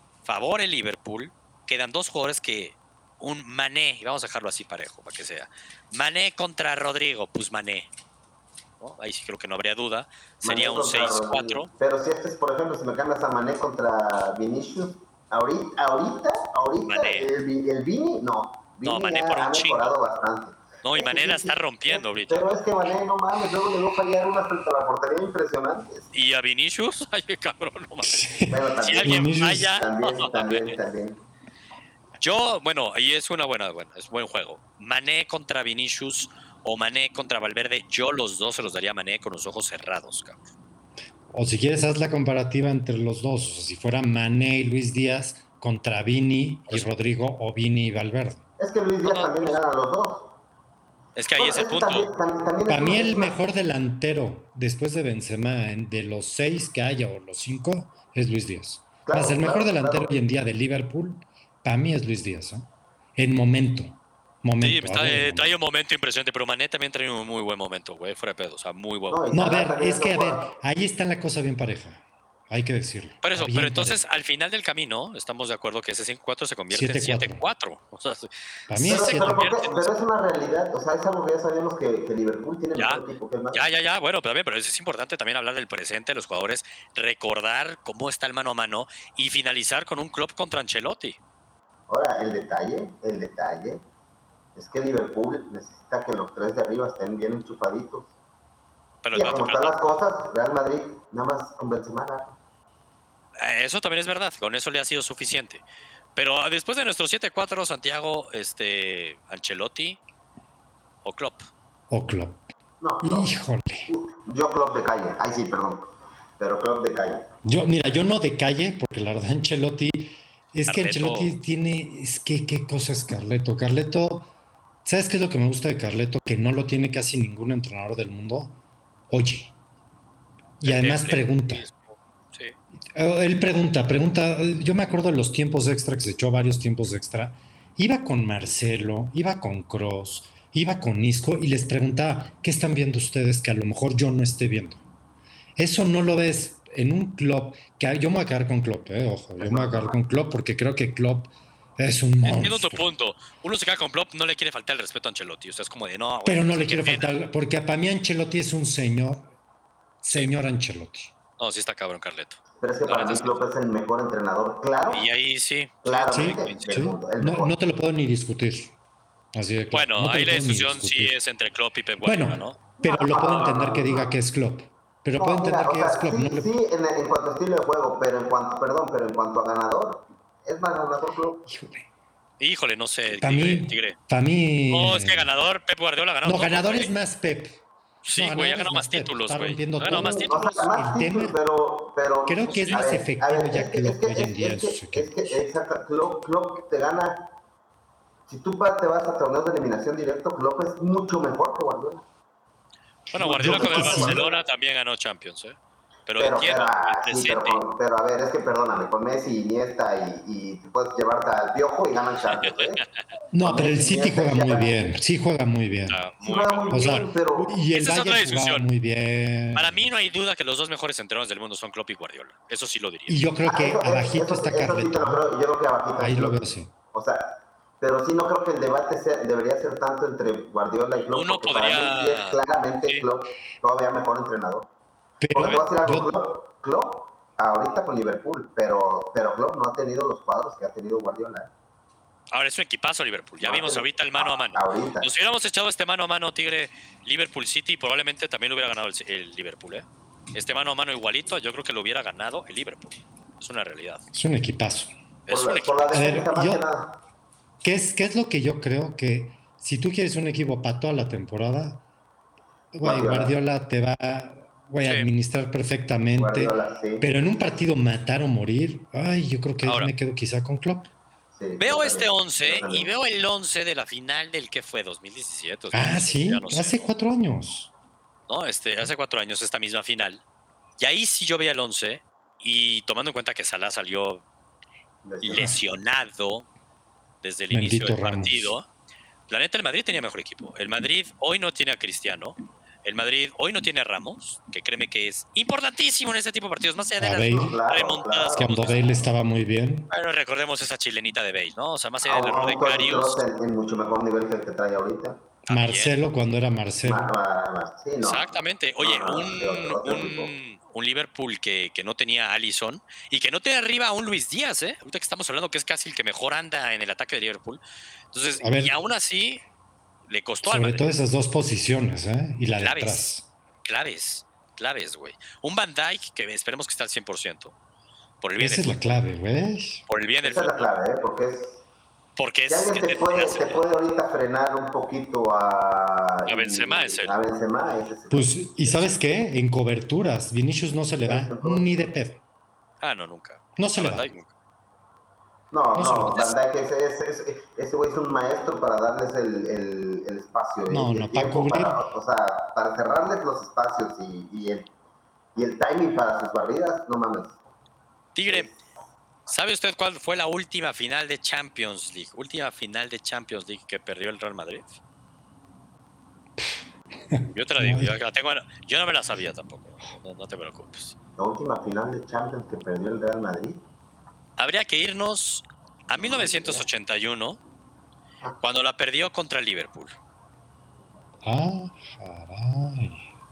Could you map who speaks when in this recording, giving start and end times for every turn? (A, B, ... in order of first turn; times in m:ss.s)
0:00.2-0:07.9 A
0:08.8-0:11.7 A
0:10.4-0:26.1 B
0:16.9-0:17.3 A
0:18.8-0:19.9 A
0:20.8-0:22.6 A
0:26.1-0:28.2 A
0:28.0-0:29.7 C
0:28.5-0:31.2 B
0:28.8-0:30.8 A
0:32.2-0:40.5 A
0:41.3-0:48.4 C
0:48.6-0:50.3 B
0:49.0-0:49.6 A
0:51.1-0:52.1 A
0:51.4-0:53.4 B
0:52.7-1:05.6 C
0:59.0-1:00.1 B
1:04.6-1:09.2 A
1:09.1-1:10.6 B
1:09.3-1:14.0 C
1:13.2-1:19.9 A
1:16.7-1:17.4 C
1:18.7-1:19.5 C
1:18.7-1:23.7 B
1:22.8-1:23.0 A
1:23.5-1:31.2 A
1:31.9-1:33.8 B
1:34.6-1:38.1 B
1:39.0-1:39.7 A
1:39.1-1:42.4 B
1:43.4-1:45.6 A
1:46.1-1:50.0 A
1:51.0-1:51.5 A
1:51.9-1:52.4 C
1:52.8-1:57.3 B
1:53.0-1:53.9 C
1:57.4-2:04.3 C
2:00.7-2:01.4 A
2:04.8-2:08.6 C
2:09.1-2:09.5 C
2:10.6-2:12.6 A
2:10.6-2:11.6 C
2:13.0-2:24.8 C
2:25.6-2:32.9 C
2:29.4-2:30.0 B
2:32.3-2:37.1 A
2:36.2-2:39.3 C
2:40.0-2:40.3 A
2:40.1-2:41.1 C
2:41.4-2:43.3 A
2:42.6-2:45.0 B
2:44.9-2:46.7 A
2:45.8-2:47.6 B
2:46.1-2:48.7 C
2:49.3-2:51.1 C
2:49.7-2:52.6 A
2:52.0-2:56.5 C
2:52.8-2:54.1 B
2:55.2-3:01.4 B
3:01.5-3:01.9 C
3:02.4-3:04.0 A
3:03.2-3:05.3 C
3:04.7-3:06.9 A
3:06.2-3:11.4 C
3:08.0-3:10.7 A
3:09.9-3:17.3 B
3:12.3-3:15.4 C
3:18.3-3:22.0 B
3:23.1-3:27.6 A
3:23.1-3:24.2 C
3:23.2-3:24.3 B
3:26.2-3:32.8 B
3:32.3-3:32.8 A
3:33.3-3:36.0 C
3:33.4-3:34.8 B
3:35.9-3:36.8 A
3:36.2-3:37.6 B
3:36.7-3:39.9 C
3:37.7-3:38.6 A
3:39.5-3:43.2 A
3:43.1-3:45.2 C
3:43.4-3:54.7 B
3:46.0-3:46.7 C
3:51.1-3:53.0 A
3:55.2-3:56.2 C
3:55.3-4:01.5 B
4:02.3-4:14.0 A
4:03.4-4:03.9 B
4:04.5-4:05.1 B
4:14.1-4:14.9 C
4:15.3-4:15.8 A
4:15.3-4:17.0 B
4:15.9-4:16.6 C
4:17.6-4:21.8 C
4:22.7-4:30.9 C
4:22.8-4:23.3 B
4:24.8-4:25.1 A
4:26.2-4:27.1 B
4:29.6-4:29.9 A
4:31.3-4:32.9 B
4:31.6-4:36.9 A
4:35.7-4:37.7 C
4:38.3-4:40.2 A
4:40.8-4:44.2 A
4:45.0-4:45.6 B
4:45.2-4:46.5 A
4:47.2-4:48.6 A
4:47.5-4:48.6 C
4:49.3-4:59.0 A
4:57.0-4:57.6 C
4:57.2-4:59.1 B
4:58.4-4:59.9 C
4:59.9-5:03.2 A
5:02.0-5:05.2 B
5:05.5-5:06.0 A
5:05.5-5:07.1 C
5:06.8-5:10.3 B
5:08.0-5:17.6 A
5:18.1-5:19.4 A
5:18.4-5:18.8 C
5:20.1-5:20.9 A
5:20.4-5:23.3 C
5:22.6-5:23.0 A
5:23.6-5:27.6 A
5:28.2-5:28.8 A
5:28.4-5:29.9 C
5:29.9-5:30.7 A
5:30.2-5:31.6 B
5:32.2-5:33.6 A
5:32.5-5:39.0 B
5:36.3-5:37.1 A
5:38.1-5:42.2 C
5:41.0-5:41.9 B
5:42.8-5:44.3 A
5:43.6-5:44.1 C
5:45.5-5:54.7 B
5:45.8-5:46.2 C
5:45.9-5:46.4 A
5:50.7-5:51.8 C
5:55.3-5:57.4 B
5:58.1-5:58.5 A
5:58.3-5:58.6 B
5:59.3-6:04.8 A
6:07.1-6:08.0 C
6:07.3-6:11.0 A
6:11.2-6:13.6 B
6:14.4-6:17.4 A
6:16.0-6:16.6 B
6:18.4-6:20.0 A
6:21.2-6:23.0 C